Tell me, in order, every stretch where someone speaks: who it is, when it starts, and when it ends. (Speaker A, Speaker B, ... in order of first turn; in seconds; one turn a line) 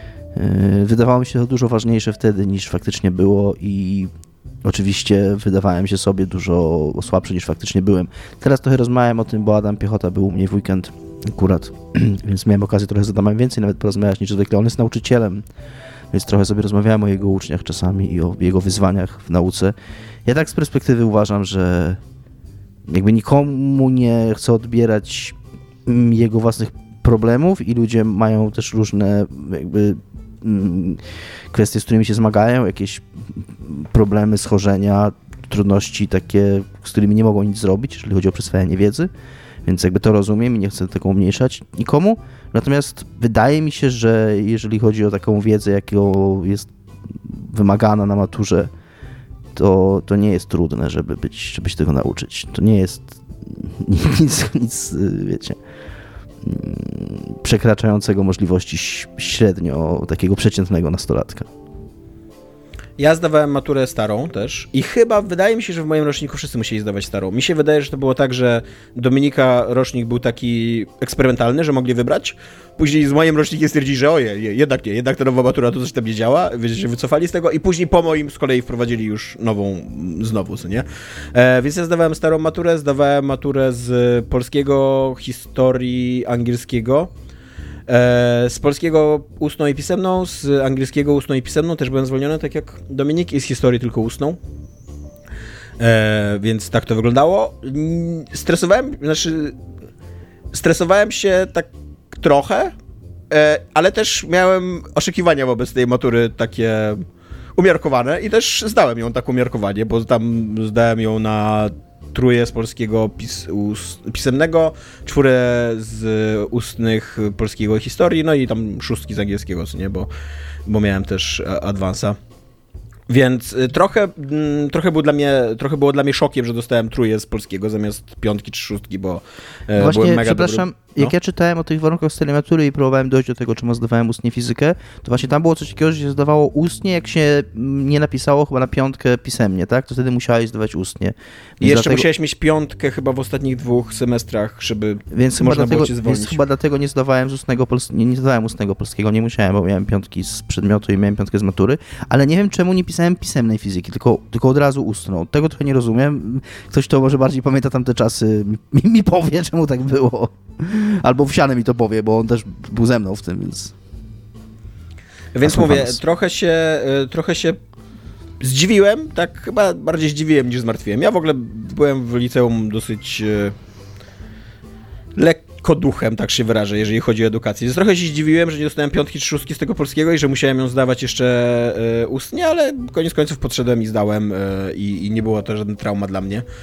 Speaker A: 0.3-4.1
Speaker A: 4.6-15.5
Speaker A: 16.1-22.0
Speaker A: 22.9-39.1
Speaker A: 39.6-48.7
Speaker A: 49.5-55.6
Speaker A: 56.4-61.5
Speaker B: 63.0-87.1
Speaker B: 87.9-94.4
Speaker B: 95.8-99.5
Speaker B: 100.5-102.7
Speaker B: 103.3-107.0
Speaker B: 107.6-120.1
Speaker B: 120.7-122.2
Speaker B: 123.1-131.1
Speaker A: 129.8-142.1
Speaker B: 141.6-146.4
Speaker A: 145.1-163.7
Speaker B: 165.3-167.6
Speaker A: 165.4-166.0
Speaker B: 168.4-173.6
Speaker B: 175.2-186.4